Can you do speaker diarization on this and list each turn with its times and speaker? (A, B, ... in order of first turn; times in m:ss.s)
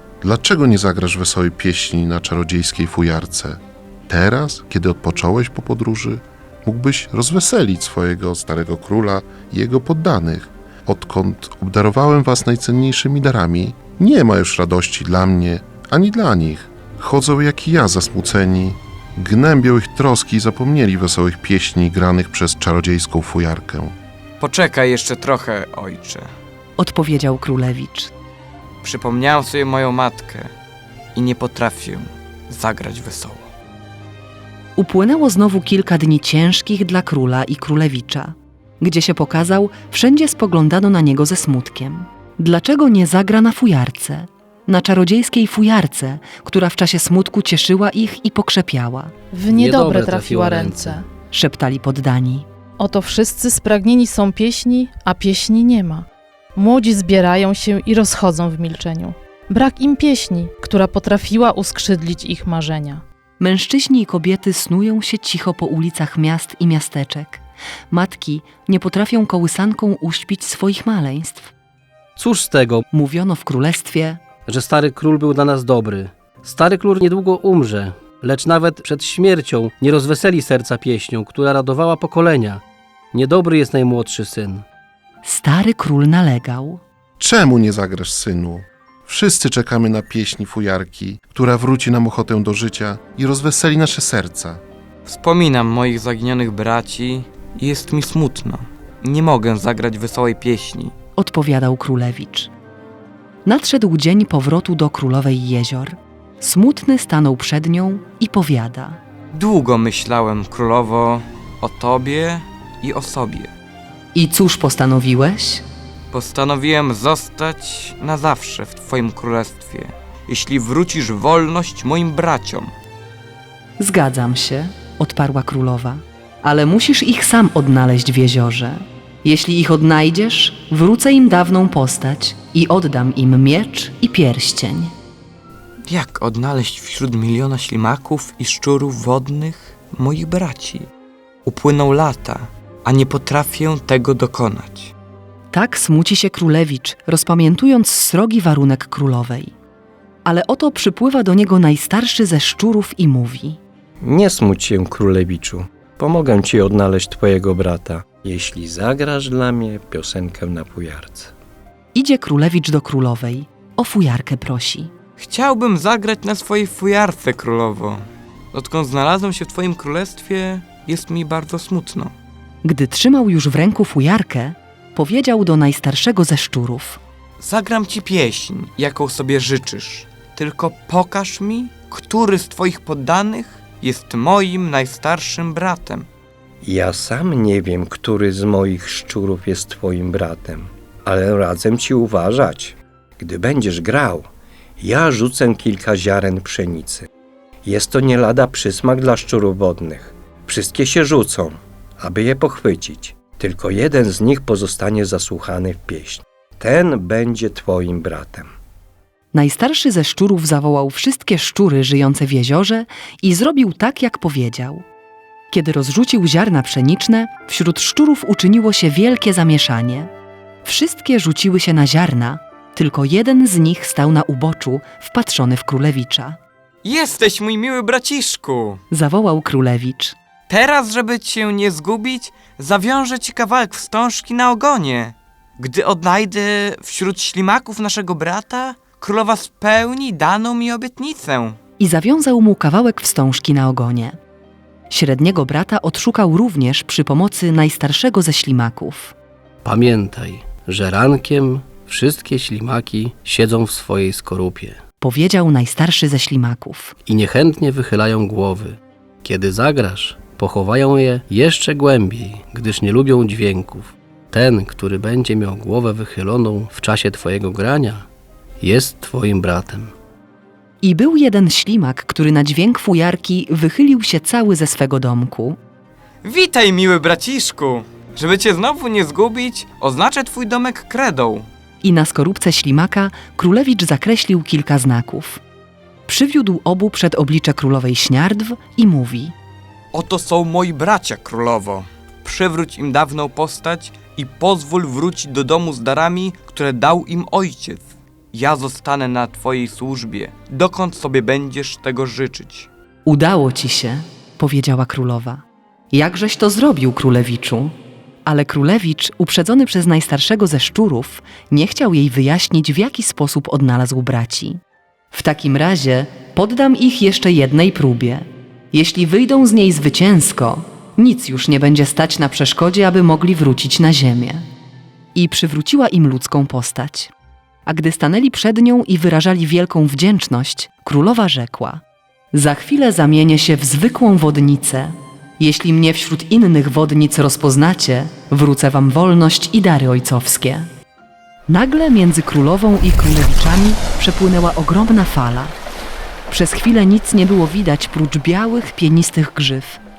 0:00.2-0:24.0 A
0:24.4-0:26.3 B
0:26.8-0:28.1 C
0:28.8-0:30.5 B
0:31.2-0:33.5 B
0:34.8-0:49.1 C
0:49.3-0:51.1 D
0:49.5-0:51.0 E
0:51.3-0:52.5 C
0:52.8-1:03.0 D
1:03.4-1:11.5 C
1:12.2-1:12.8 E
1:12.9-1:14.2 C
1:14.5-1:24.6 E
1:25.2-1:26.8 C
1:27.2-1:34.6 A
1:35.1-1:41.0 B
1:41.2-1:42.5 C
1:43.5-1:49.0 C
1:49.3-1:53.5 B
1:54.1-1:55.6 C
1:56.1-2:02.7 B
2:03.8-2:14.9 C
2:15.9-2:20.9 B
2:21.5-2:24.9 B
2:25.5-2:29.5 C
2:30.3-2:33.6 C
2:34.0-2:41.3 F
2:41.9-2:44.9 C
2:45.2-2:52.1 B
2:52.6-2:57.0 C
2:57.4-3:06.1 B
3:06.6-3:17.1 F
3:17.6-3:28.5 F
3:29.3-3:34.8 C
3:35.5-3:40.1 C
3:40.6-3:46.4 C
3:46.8-3:48.8 B
3:48.9-3:50.2 C
3:50.5-4:01.6 B
4:01.8-4:04.2 C
4:04.9-4:09.2 C
4:09.6-4:14.8 E
4:15.0-4:17.0 C
4:17.1-4:28.1 E
4:28.6-4:29.9 E
4:30.8-4:35.6 C
4:36.2-4:41.5 B
4:41.8-4:45.4 C
4:46.1-4:49.4 C
4:49.9-5:02.7 B
5:03.1-5:07.8 C
5:08.3-5:14.6 C
5:15.1-5:24.5 C
5:25.2-5:27.1 C
5:27.7-5:40.7 C
5:41.5-5:45.5 C
5:46.3-5:49.8 C